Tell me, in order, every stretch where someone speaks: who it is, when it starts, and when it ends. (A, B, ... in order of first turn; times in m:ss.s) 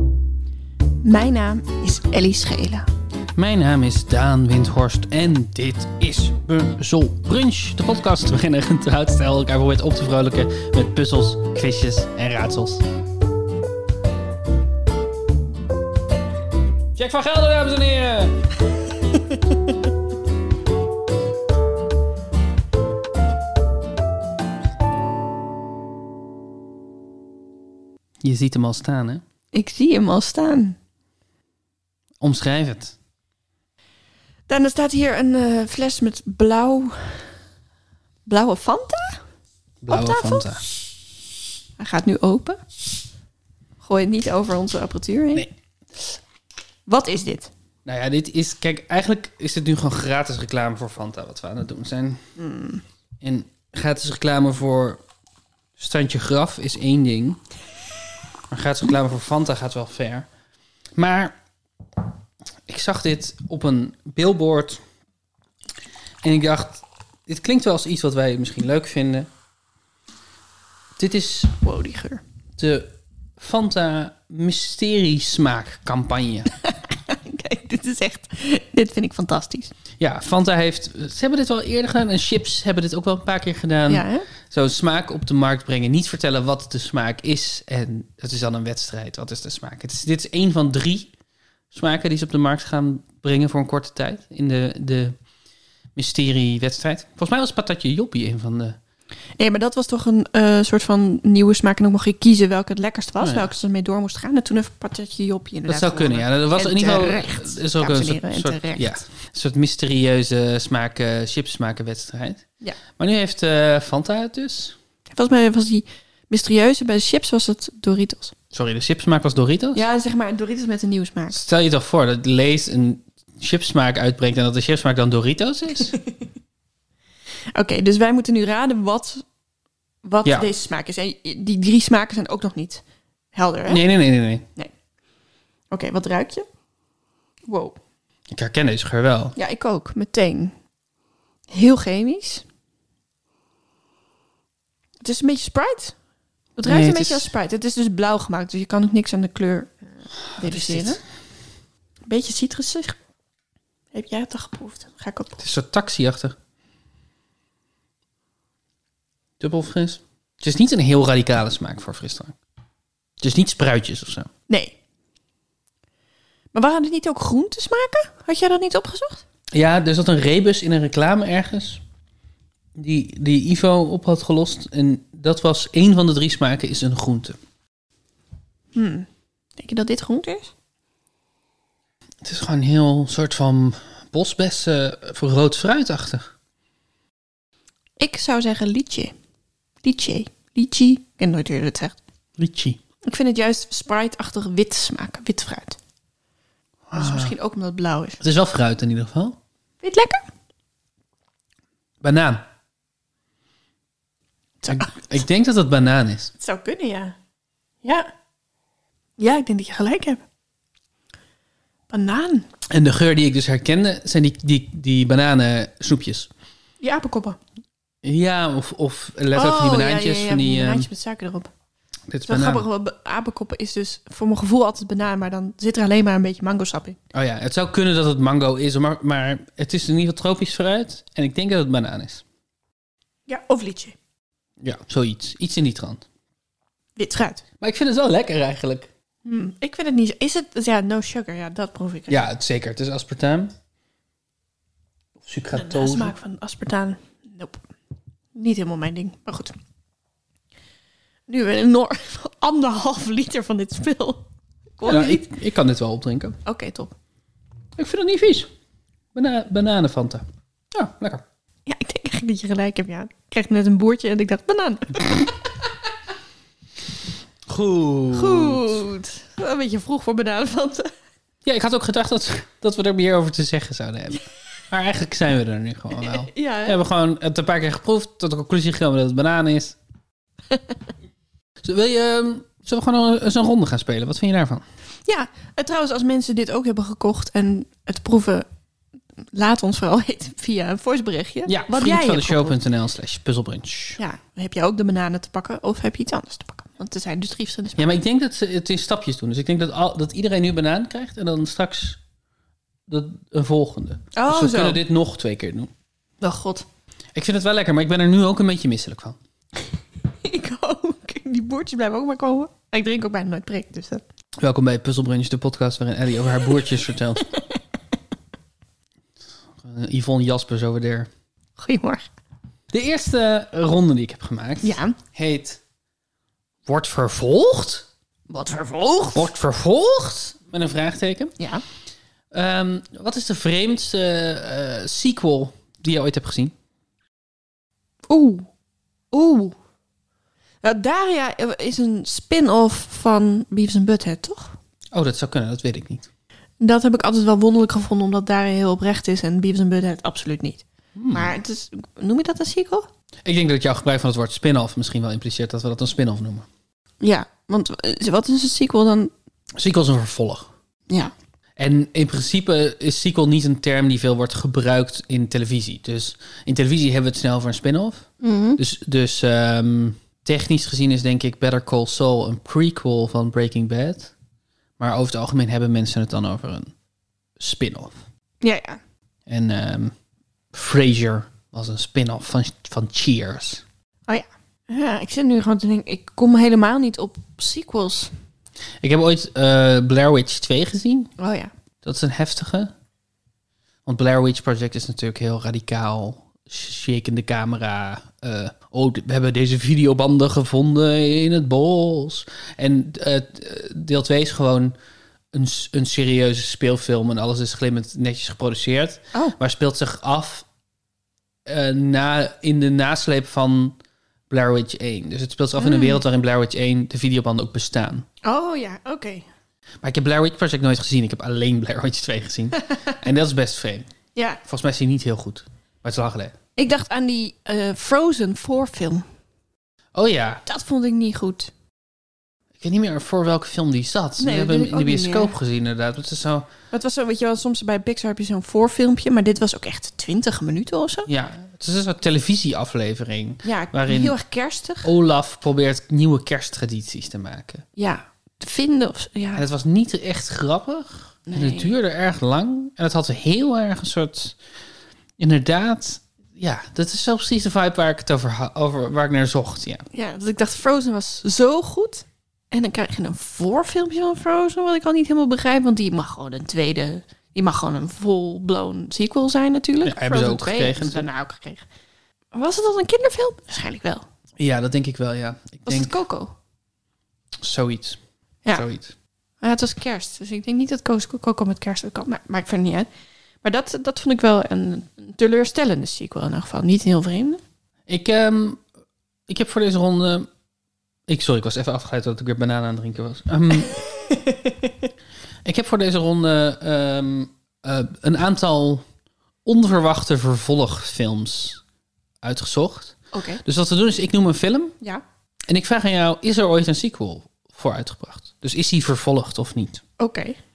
0:01.0-0:02.9 A
0:03.4-0:12.8 B
0:17.0-0:18.4 B
0:28.2-0:29.2 B
0:29.5-0:30.8 A
0:32.2-0:33.0 B
0:34.5-0:37.4 A
0:38.3-0:39.2 A
0:39.8-0:40.6 B
0:39.9-0:40.7 A
0:41.8-0:42.6 A
0:43.8-0:45.5 A
0:46.9-0:47.5 A
0:47.8-0:52.2 B
0:52.4-0:52.8 A
0:53.2-0:55.0 B
0:55.8-0:57.4 B
0:58.5-1:00.3 B
1:01.0-1:01.4 B
1:02.7-1:04.8 B
1:06.2-1:09.3 B
1:11.0-1:11.6 B
1:11.6-1:12.2 A
1:12.6-1:16.5 B
1:16.6-1:19.7 A
1:20.0-1:31.1 B
1:23.9-1:24.3 A
1:31.7-1:35.2 B
1:36.0-1:38.8 B
1:39.4-1:49.0 A
1:43.2-1:43.5 B
1:45.7-1:54.8 B
1:55.1-1:58.4 A
1:58.5-1:59.9 B
1:59.8-2:01.4 A
2:01.3-2:06.0 B
2:05.9-2:06.3 A
2:07.6-2:09.2 A
2:10.0-2:12.8 A
2:10.2-2:10.5 B
2:13.3-2:13.8 A
2:13.7-2:14.5 B
2:15.7-2:16.5 A
2:17.5-2:17.8 A
2:18.3-2:19.4 B
2:19.4-2:20.5 A
2:21.5-2:22.4 A
2:25.0-2:26.0 A
2:26.6-2:29.8 A
2:26.6-2:27.3 B
2:30.3-2:31.0 B
2:30.4-2:31.0 A
2:32.0-2:33.0 A
2:33.9-2:35.4 A
2:35.4-2:36.4 B
2:39.4-2:42.4 B
2:43.2-2:44.3 B
2:44.5-2:44.8 A
2:46.5-2:49.2 A
2:49.5-2:51.8 B
2:52.8-2:57.4 B
2:58.7-3:00.5 A
3:02.2-3:06.3 B
3:08.0-3:09.1 A
3:09.8-3:12.0 A
3:12.4-3:12.8 B
3:13.0-3:15.8 A
3:16.9-3:17.3 B
3:17.0-3:18.2 A
3:18.2-3:19.4 B
3:19.8-3:20.2 A
3:22.0-3:22.4 B
3:24.6-3:25.1 A
3:24.7-3:26.3 B
3:26.4-3:27.2 A
3:27.8-3:28.1 A
3:29.2-3:30.2 A
3:31.9-3:32.5 A
3:32.7-3:36.3 B
3:36.8-3:37.4 A
3:38.0-3:40.9 B
3:39.3-3:41.5 A
3:42.1-3:42.7 B
3:42.3-3:47.0 A
3:47.1-3:52.2 B
3:53.3-3:54.0 A
3:54.6-3:56.0 B
3:57.0-3:57.4 A
3:57.6-3:58.9 B
3:59.2-4:02.3 A
4:02.1-4:03.5 B
4:05.2-4:06.1 B
4:05.5-4:07.6 A
4:08.3-4:09.5 A
4:11.3-4:14.3 A
4:14.8-4:15.3 A
4:14.8-4:16.4 B
4:16.4-4:16.9 A
4:17.8-4:18.5 B
4:19.2-4:21.2 B
4:21.7-4:25.8 A
4:27.5-4:28.8 B
4:28.1-4:30.9 A
4:31.4-4:39.8 B
4:36.0-4:36.8 A
4:40.5-4:40.8 A
4:41.6-4:44.6 B
4:45.0-4:48.5 A
4:49.3-4:52.6 A
4:51.5-4:54.0 B
4:54.0-4:57.9 A
4:57.8-5:02.0 B
5:02.9-5:05.7 B
5:04.1-5:04.8 A
5:06.2-5:06.7 A
5:07.2-5:09.2 B
5:10.2-5:14.0 A
5:14.4-5:17.3 B
5:17.3-5:17.6 A
5:19.6-5:21.1 B
5:21.6-5:22.0 A
5:22.7-5:25.6 B
5:24.6-5:25.0 A
5:26.7-5:27.9 B
5:28.3-5:29.3 A
5:29.1-5:31.4 B
5:31.4-5:31.6 A
5:32.3-5:36.5 B
5:38.1-5:38.5 A
5:39.1-5:39.6 A
5:40.6-5:44.6 A
5:44.9-5:46.1 B
5:46.6-5:52.9 A
5:51.0-5:51.3 B
5:53.2-5:56.5 B
5:57.0-5:59.1 A
5:59.6-6:00.5 B
6:01.6-6:14.1 B
6:08.2-6:08.6 A
6:14.8-6:16.7 B
6:17.4-6:18.0 B
6:18.4-6:18.8 A
6:19.3-6:19.9 B
6:20.5-6:23.6 B
6:24.1-6:28.1 A
6:28.8-6:31.1 B
6:31.2-6:31.5 A
6:31.8-6:32.7 B
6:33.9-6:44.8 B
6:45.3-6:50.5 B
6:51.5-6:53.8 B
6:54.3-6:58.1 B
6:55.6-6:56.0 A
6:58.2-6:59.3 A
6:59.8-7:03.9 B
7:04.2-7:04.4 A
7:04.4-7:06.3 B
7:06.6-7:09.0 A
7:10.0-7:10.4 B
7:10.5-7:11.5 A
7:12.6-7:16.5 B
7:14.2-7:15.4 A
7:16.7-7:21.1 A
7:21.1-7:24.2 B
7:23.4-7:24.9 A
7:24.8-7:27.6 B
7:27.8-7:29.4 A
7:29.4-7:34.4 B
7:31.3-7:31.7 A
7:35.2-7:39.9 B
7:39.9-7:51.6 A
7:49.8-7:51.1 B
7:52.3-7:54.1 A
7:54.4-7:56.0 B
7:55.7-7:56.3 A
7:57.4-7:58.9 B
7:59.4-8:02.9 A
8:03.4-8:07.4 A
8:07.9-8:08.6 B
8:09.3-8:10.3 B
8:11.1-8:13.8 B
8:13.8-8:14.7 A
8:15.4-8:18.8 B
8:19.4-8:21.6 B
8:22.2-8:24.8 B
8:23.1-8:23.4 A
8:25.5-8:29.8 B
8:30.0-8:30.4 A